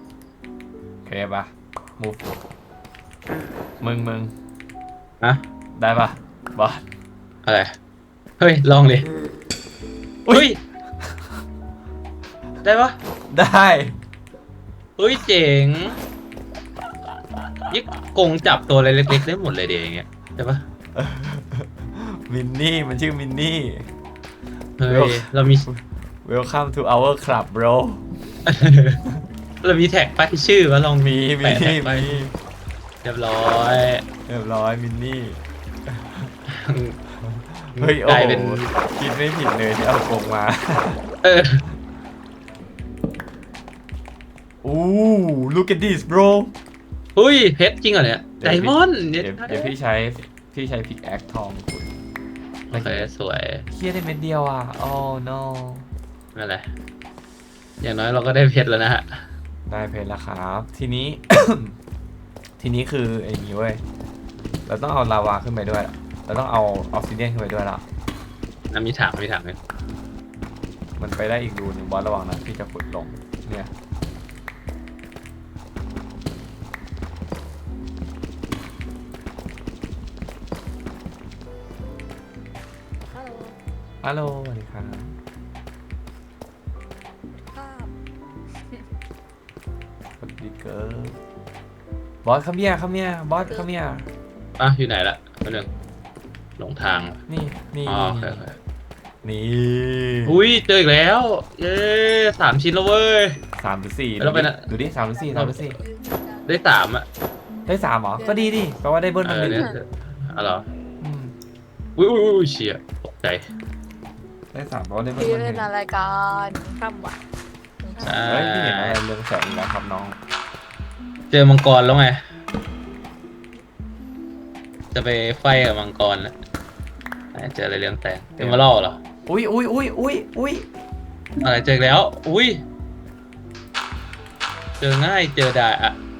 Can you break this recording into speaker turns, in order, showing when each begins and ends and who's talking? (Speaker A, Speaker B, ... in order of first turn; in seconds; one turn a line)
Speaker A: 1.0-2.2
Speaker A: 3.8-4.3
Speaker A: 5.8-6.8
Speaker B: 7.5-7.8
Speaker B: 8.4-9.1
Speaker A: 10.2-10.5
Speaker B: 10.3-10.6
Speaker B: 12.6-13.0
Speaker A: 13.3-14.0
Speaker B: 15.0-16.0
Speaker B: 17.7-20.6
Speaker A: 20.9-23.9
Speaker B: 24.8-25.7
Speaker A: 24.9-28.1
Speaker B: 28.5-29.0
Speaker B: 29.6-32.2
Speaker A: 31.0-32.4
Speaker B: 33.0-34.0
Speaker A: 34.3-36.3
Speaker B: 36.5-37.0
Speaker A: 37.2-41.0
Speaker B: 37.8-38.7
Speaker B: 41.2-41.6
Speaker A: 44.6-46.5
Speaker B: 47.2-49.7
Speaker A: 48.4-52.0
Speaker B: 52.7-53.7
Speaker A: 52.7-53.1
Speaker A: 53.7-55.9
Speaker B: 56.4-56.7
Speaker B: 57.8-59.3
Speaker A: 59.7-61.8
Speaker A: 62.6-63.8
Speaker A: 64.7-67.8
Speaker B: 68.7-69.6
Speaker A: 71.0-73.7
Speaker C: 83.1-83.5
Speaker A: 84.0-85.2
Speaker C: 87.5-87.9
Speaker A: 90.2-91.2
Speaker A: 92.2-94.1
Speaker B: 94.6-95.7
Speaker B: 96.6-97.2
Speaker A: 97.3-98.4
Speaker B: 97.9-98.6
Speaker A: 99.2-100.4
Speaker B: 100.3-103.4
Speaker A: 103.6-105.8
Speaker B: 104.2-104.7
Speaker C: 105.8-106.5
Speaker B: 106.5-107.1
Speaker A: 107.7-109.7
Speaker C: 108.2-108.7
Speaker B: 109.2-110.7
Speaker A: 111.0-111.3
Speaker B: 112.0-113.4
Speaker A: 114.5-115.7
Speaker C: 115.2-117.2
Speaker C: 117.9-118.2
Speaker B: 118.0-119.0
Speaker A: 118.0-120.2
Speaker B: 121.3-122.2
Speaker B: 124.9-126.3
Speaker B: 127.3-129.0
Speaker A: 128.4-128.7
Speaker A: 129.3-130.7
Speaker B: 131.4-132.6
Speaker B: 134.8-136.0